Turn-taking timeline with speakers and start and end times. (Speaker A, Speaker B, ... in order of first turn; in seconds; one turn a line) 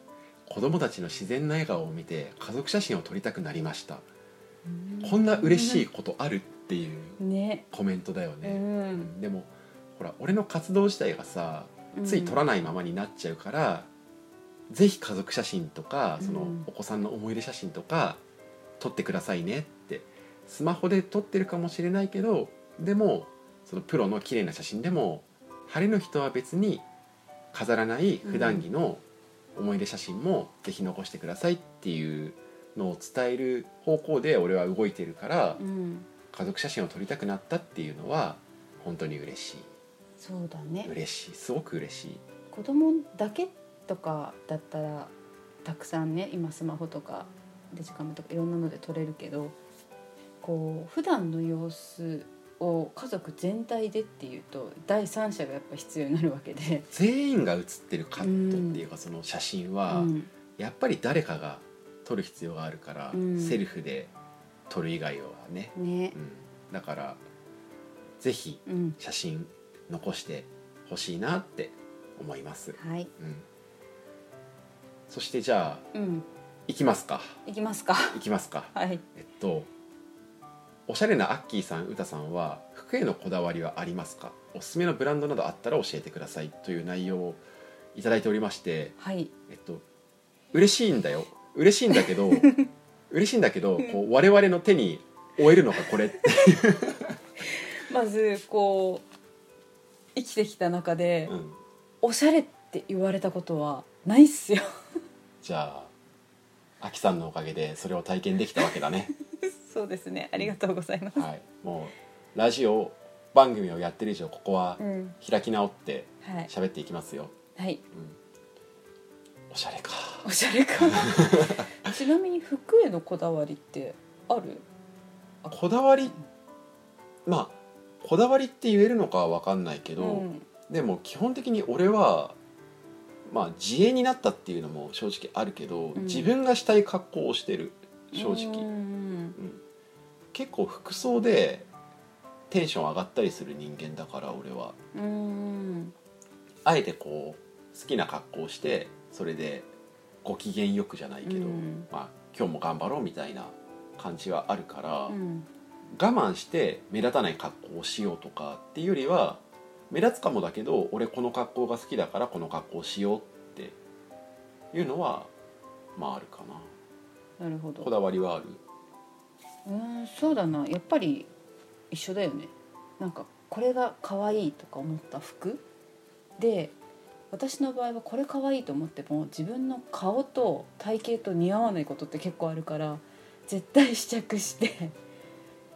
Speaker A: 0.5-4.0
Speaker B: 4.7-5.8
Speaker A: 5.0-7.2
Speaker B: 7.2-7.7
Speaker A: 7.7-13.9
Speaker B: 8.4-9.1
Speaker B: 11.9-12.4
Speaker A: 14.7-18.2
Speaker B: 16.2-16.7
Speaker A: 18.8-26.8
Speaker A: 27.5-29.0
Speaker B: 28.2-28.6
Speaker A: 29.5-35.6
Speaker B: 35.6-36.1
Speaker A: 36.3-39.7
Speaker B: 40.2-40.9
Speaker A: 40.8-42.2
Speaker B: 42.5-45.1
Speaker B: 45.6-49.5
Speaker B: 50.4-56.9
Speaker A: 56.9-64.1
Speaker B: 58.2-58.8
Speaker B: 59.9-60.3
Speaker B: 63.1-63.6
Speaker A: 64.7-67.2
Speaker B: 65.7-66.2
Speaker A: 68.2-73.4
Speaker B: 68.7-69.0
Speaker B: 72.8-73.1
Speaker A: 75.1-75.9
Speaker B: 75.9-76.2
Speaker A: 76.7-77.4
Speaker B: 77.5-78.2
Speaker A: 78.1-79.7
Speaker B: 78.7-79.0
Speaker A: 80.9-87.4
Speaker A: 87.9-89.0
Speaker B: 89.0-89.3
Speaker A: 89.5-89.8
Speaker A: 90.5-92.5
Speaker A: 93.1-97.2
Speaker B: 97.7-99.0
Speaker B: 100.2-101.3
Speaker A: 101.2-101.6
Speaker B: 102.0-104.7
Speaker A: 105.4-105.9
Speaker A: 106.8-109.1
Speaker B: 109.4-111.3
Speaker A: 111.2-117.3
Speaker B: 114.8-115.2
Speaker B: 116.2-116.5
Speaker B: 117.5-117.8
Speaker A: 117.9-118.2
Speaker A: 119.5-120.2
Speaker B: 120.2-124.6
Speaker A: 120.9-121.7
Speaker A: 125.5-126.1
Speaker A: 127.2-132.4
Speaker B: 130.0-130.4
Speaker A: 133.2-138.7
Speaker B: 135.9-136.3
Speaker B: 138.1-139.4
Speaker A: 139.4-139.6
Speaker A: 140.3-141.7
Speaker A: 142.5-144.8
Speaker B: 144.9-145.9
Speaker A: 146.6-149.7
Speaker A: 150.2-155.2
Speaker B: 151.2-151.9
Speaker B: 155.1-155.5
Speaker A: 155.9-163.8
Speaker A: 164.7-165.3
Speaker A: 165.9-166.7
Speaker B: 167.4-167.9
Speaker A: 167.8-168.6
Speaker B: 169.7-171.3
Speaker B: 171.9-175.6
Speaker B: 176.4-176.7
Speaker B: 177.3-184.9